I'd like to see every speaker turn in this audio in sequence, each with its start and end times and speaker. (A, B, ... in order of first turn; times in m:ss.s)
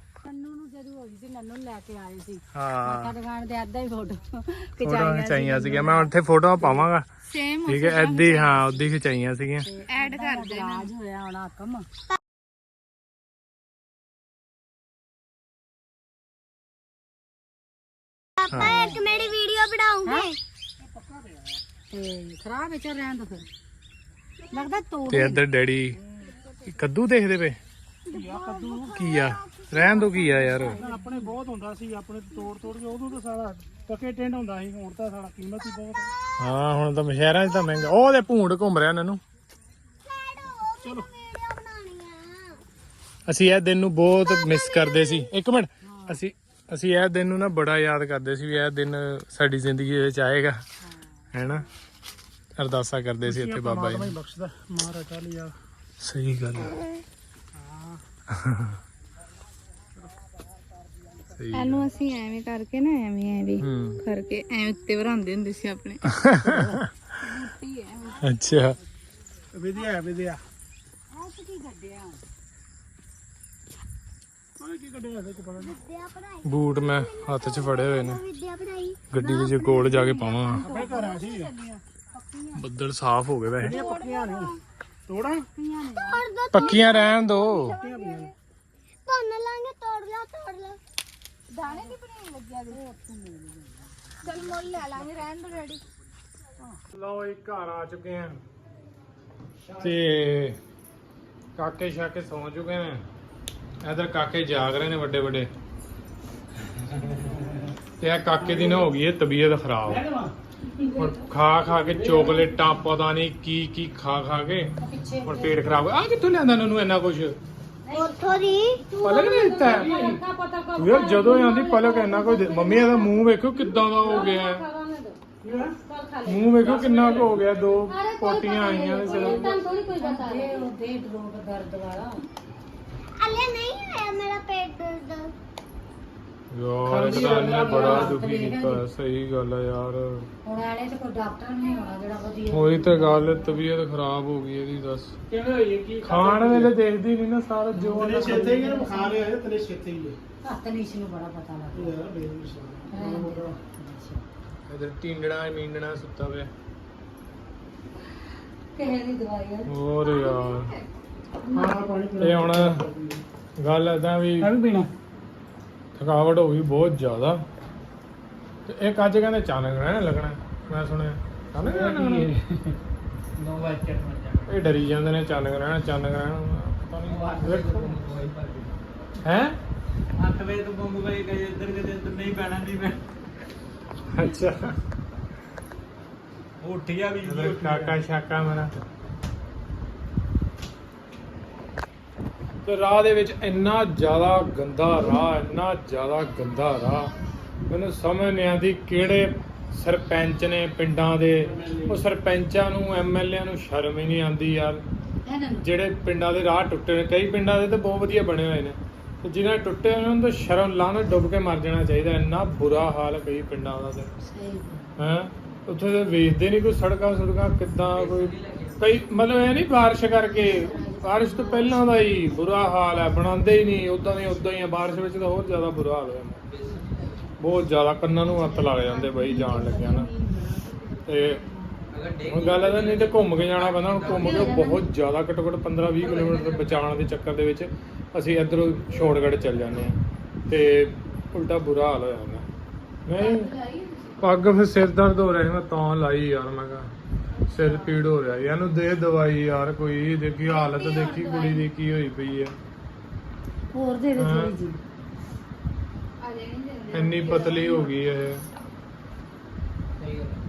0:00.2-0:06.1 A
0:02.5-0:03.1 B
0:04.8-0:05.5 C
0:04.8-0:07.1 B
0:07.3-0:08.7 C
0:07.7-0:09.7 B
0:09.6-0:11.9 A
0:09.9-0:10.9 C
0:18.4-0:20.4 D
0:18.5-0:18.9 B
0:18.6-0:19.0 A
0:21.9-0:23.5 A
0:24.5-0:25.4 A
0:25.1-0:26.0 B
0:26.7-0:27.6 B
0:28.1-0:30.8 D
0:28.1-0:29.0 E
0:28.9-0:30.8 B
0:30.6-0:31.0 A
0:30.8-0:36.1 E
0:36.1-0:36.5 D
0:36.4-0:39.2 B
0:40.0-0:42.6 D
0:40.8-0:41.1 E
0:43.3-0:50.6 B
0:44.0-0:45.3 D
0:45.8-0:46.2 A
0:51.3-0:51.7 B
0:52.6-0:54.1 B
0:53.2-0:55.6 E
0:56.0-0:56.8 B
0:57.6-0:58.0 E
0:58.3-0:58.8 B
1:01.3-1:01.8 B
1:01.5-1:06.0 C
1:03.6-1:04.0 B
1:06.1-1:07.0 B
1:06.5-1:06.8 E
1:07.2-1:08.2 C
1:08.2-1:08.8 B
1:09.5-1:10.4 E
1:11.1-1:12.2 A
1:14.6-1:15.7 E
1:15.6-1:19.0 D
1:16.4-1:18.2 B
1:19.1-1:20.7 B
1:19.2-1:21.6 A
1:20.6-1:21.8 E
1:22.1-1:22.6 A
1:22.6-1:23.8 B
1:23.6-1:24.6 E
1:23.6-1:24.5 A
1:25.1-1:25.5 E
1:25.6-1:26.2 A
1:25.9-1:28.3 D
1:26.5-1:27.8 B
1:27.8-1:28.3 E
1:29.1-1:30.8 D
1:31.5-1:32.8 C
1:31.7-1:32.0 A
1:32.7-1:34.7 A
1:34.2-1:35.8 C
1:36.9-1:38.4 B
1:39.8-1:40.6 B
1:41.6-1:43.0 B
1:43.8-1:45.5 B
1:48.0-1:50.0 B
1:50.8-1:51.2 A
1:50.9-1:54.7 B
1:54.8-1:55.6 A
1:55.2-1:57.4 B
1:57.8-2:05.2 A
1:57.9-1:58.8 D
1:59.0-2:00.2 B
2:00.8-2:04.6 B
2:02.1-2:02.8 D
2:05.4-2:05.8 E
2:05.8-2:12.2 A
2:06.2-2:09.5 B
2:07.0-2:07.3 F
2:09.0-2:10.6 C
2:13.1-2:15.3 D
2:16.5-2:20.3 B
2:16.9-2:18.8 A
2:20.4-2:23.4 A
2:22.5-2:25.1 B
2:25.3-2:26.7 E
2:26.0-2:28.5 B
2:27.7-2:29.1 A
2:27.9-2:30.2 E
2:30.4-2:31.9 A
2:31.7-2:33.6 E
2:32.9-2:34.2 A
2:34.7-2:36.5 B
2:38.7-2:39.7 A
2:39.7-2:40.7 B
2:40.0-2:40.8 C
2:41.5-2:43.2 E
2:42.2-2:42.8 B
2:43.6-2:44.5 B
2:44.4-2:44.9 A
2:46.0-2:47.4 B
2:48.7-2:52.3 B
2:51.6-2:52.1 F
2:53.4-2:54.5 F
2:54.5-2:58.0 B
2:57.0-2:58.7 F
2:59.2-2:59.6 B
3:00.2-3:03.0 F
3:04.1-3:04.7 B
3:06.6-3:08.0 F
3:07.2-3:08.7 B
3:12.6-3:17.1 B
3:17.7-3:24.8 B
3:25.2-3:25.6 A
3:25.6-3:34.1 B
3:34.2-3:34.9 A
3:35.0-3:46.4 B
3:37.9-3:39.0 F
3:40.3-3:42.3 A
3:46.5-3:47.1 F
3:47.4-3:50.1 B
3:48.2-3:50.7 A
3:51.1-3:51.4 B
3:51.9-3:54.6 F
3:52.2-4:02.5 B
3:54.1-3:54.8 A
3:56.0-3:57.0 F
4:03.1-4:03.5 B
4:03.2-4:04.1 C
4:04.2-4:06.9 B
4:07.5-4:07.9 C
4:07.5-4:12.6 B
4:10.5-4:11.6 C
4:13.7-4:14.8 A
4:14.1-4:14.6 B
4:16.2-4:17.9 C
4:16.9-4:18.4 B
4:20.0-4:20.4 F